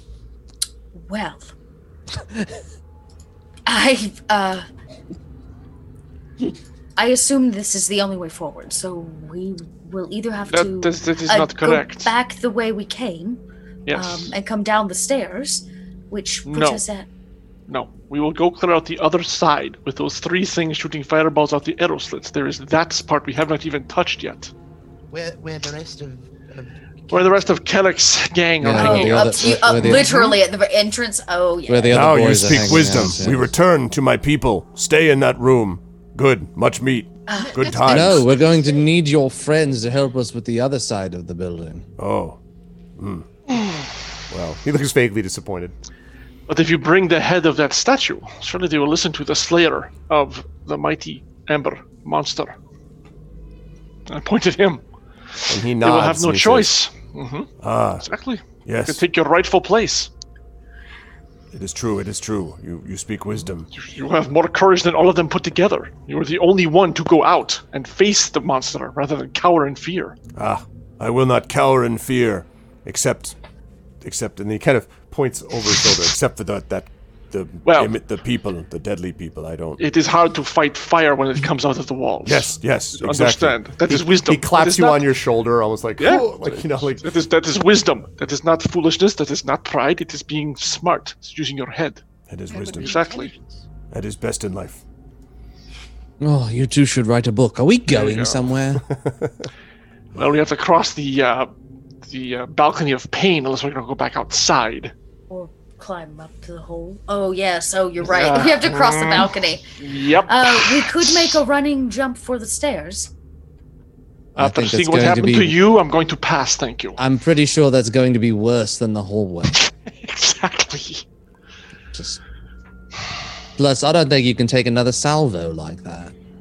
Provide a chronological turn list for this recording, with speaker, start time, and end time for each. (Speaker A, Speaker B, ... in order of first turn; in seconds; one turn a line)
Speaker A: 0.9-1.5
Speaker A: 3.7-4.7
Speaker A: 7.0-13.4
Speaker B: 10.5-12.1
Speaker B: 13.8-14.3
Speaker A: 13.9-17.1
Speaker B: 16.4-16.8
Speaker B: 17.7-24.5
Speaker C: 25.1-27.6
Speaker B: 27.1-30.1
Speaker D: 28.6-30.2
Speaker A: 28.7-32.1
Speaker D: 31.7-33.5
Speaker E: 31.9-38.3
Speaker A: 37.3-37.7
Speaker C: 37.3-38.9
Speaker D: 37.9-41.9
Speaker E: 42.0-42.4
Speaker E: 43.0-43.3
Speaker E: 44.3-45.7
Speaker B: 46.5-52.5
Speaker B: 54.1-54.8
Speaker B: 55.3-57.5
Speaker E: 55.5-56.7
Speaker E: 57.6-58.0
Speaker B: 58.0-60.1
Speaker E: 58.6-59.0
Speaker E: 61.5-63.7
Speaker B: 63.7-70.2
Speaker E: 70.3-73.3
Speaker E: 74.0-79.8
Speaker B: 77.7-77.9
Speaker B: 79.8-85.1
Speaker E: 82.2-87.1
Speaker B: 86.0-92.0
Speaker E: 92.3-93.0
Speaker C: 92.5-93.6
Speaker B: 92.6-93.3
Speaker E: 93.9-94.8
Speaker D: 96.2-98.8
Speaker B: 97.9-98.4
Speaker E: 98.9-99.5
Speaker B: 100.1-101.5
Speaker B: 102.0-104.9
Speaker A: 105.3-109.6
Speaker B: 108.0-111.4
Speaker A: 110.3-113.1
Speaker B: 114.3-117.0
Speaker D: 114.4-115.6
Speaker D: 117.0-119.7
Speaker B: 119.9-121.0
Speaker D: 121.9-122.2
Speaker D: 123.6-126.1